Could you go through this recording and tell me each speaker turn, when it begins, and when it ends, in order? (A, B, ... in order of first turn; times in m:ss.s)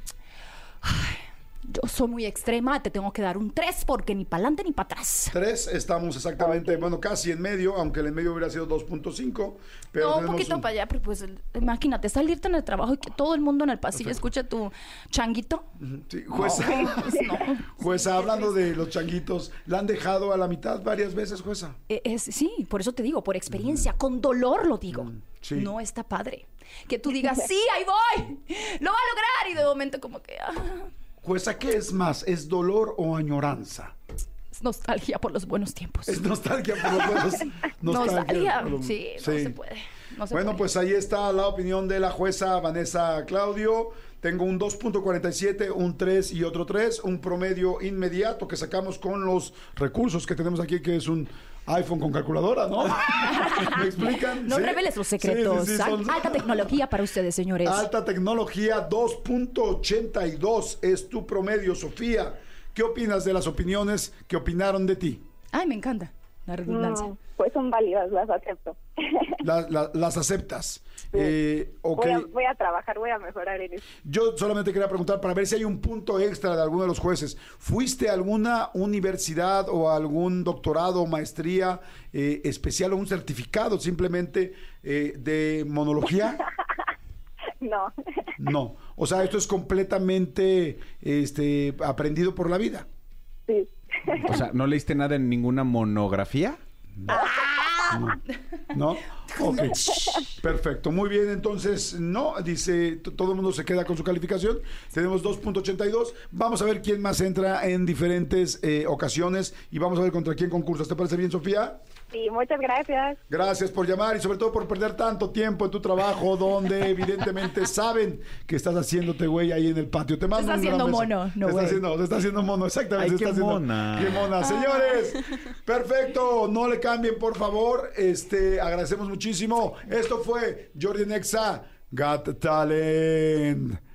0:00.8-0:05.4 A
0:05.3-0:10.6 B
0:10.0-0:15.7 A
0:15.8-0:21.8 B
0:16.3-0:18.5 A
0:21.9-0:30.9 A
0:23.5-0:23.8 B
0:24.9-0:25.7 B
0:31.2-0:33.9 B
0:34.5-0:36.2 A
0:36.0-0:39.6 B
0:37.8-0:40.7 A
0:40.3-0:56.8 B
0:53.0-0:57.9 A
0:57.6-1:05.2 B
1:05.5-1:07.1 A
1:06.7-1:09.3 C
1:09.4-1:12.3 B
1:11.9-1:13.8 C
1:14.0-1:26.4 B
1:27.6-1:27.9 C
1:28.4-1:32.9 B
1:33.5-1:34.3 C
1:34.2-1:36.6 D
1:37.1-1:38.0 A
1:37.9-1:38.2 B
1:38.7-1:51.8 B
1:39.3-1:39.7 A
1:52.1-1:53.2 C
1:53.3-2:13.8 B
2:00.3-2:01.8 A
2:03.0-2:04.3 D